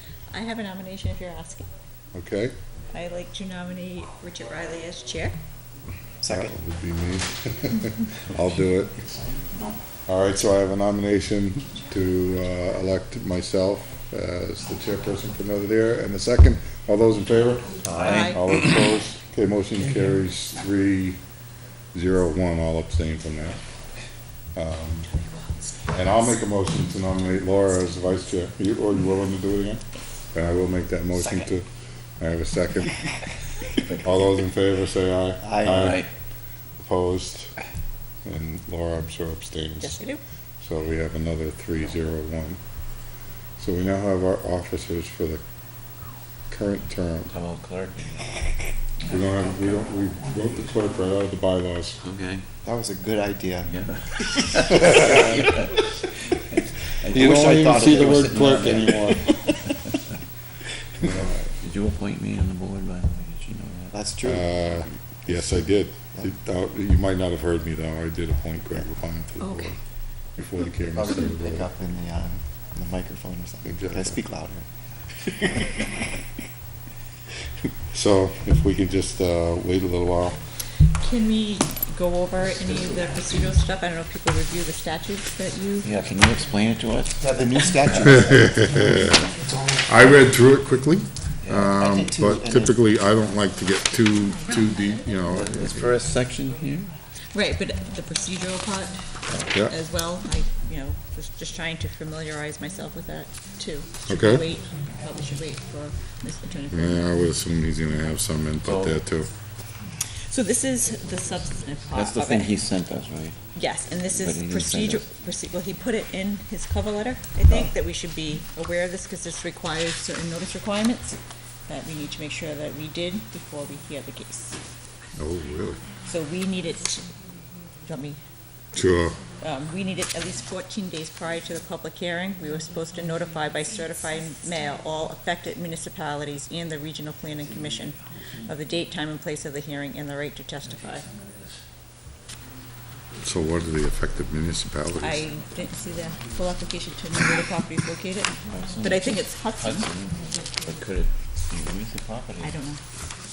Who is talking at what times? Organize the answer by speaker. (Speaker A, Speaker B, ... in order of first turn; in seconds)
Speaker A: 0.3-1.7, 2.9-5.3, 18.0-18.4, 39.8-40.2, 69.4-69.7, 81.0-85.9, 97.3-99.0, 99.6-107.0, 110.2-112.5, 113.5-124.6, 126.0-127.1, 127.8-128.2, 129.4-141.1, 145.0-149.9, 152.4-152.8
Speaker B: 2.1-2.5, 6.3-9.0, 10.1-21.2, 21.9-23.6, 24.6-25.1, 25.9-33.1, 34.0-36.1, 36.8-37.5, 38.2-40.0, 40.6-42.6, 43.6-45.4, 46.5-47.3, 49.0-52.0, 57.1-59.4, 61.0-61.3, 64.2-69.8, 70.4-71.7, 73.6-74.2, 77.9-80.4, 88.0-96.0, 99.5-99.7, 104.1-104.4, 106.7-109.3, 125.2-125.8, 128.7-129.2, 143.2-145.2
Speaker C: 6.2-6.5, 35.4-36.0, 52.6-53.7, 54.6-55.3, 57.1-59.1, 61.0-61.5, 63.9-64.6, 70.9-74.7, 87.2-88.8, 91.7-92.8
Speaker D: 17.8-18.4, 35.6-36.1, 47.3-48.2, 52.0-52.4, 53.7-55.8, 56.8-59.0, 61.6-63.9, 85.8-87.3, 91.4-91.8, 95.3-96.9, 108.6-109.0, 111.9-113.4, 114.1-115.0, 148.4-152.6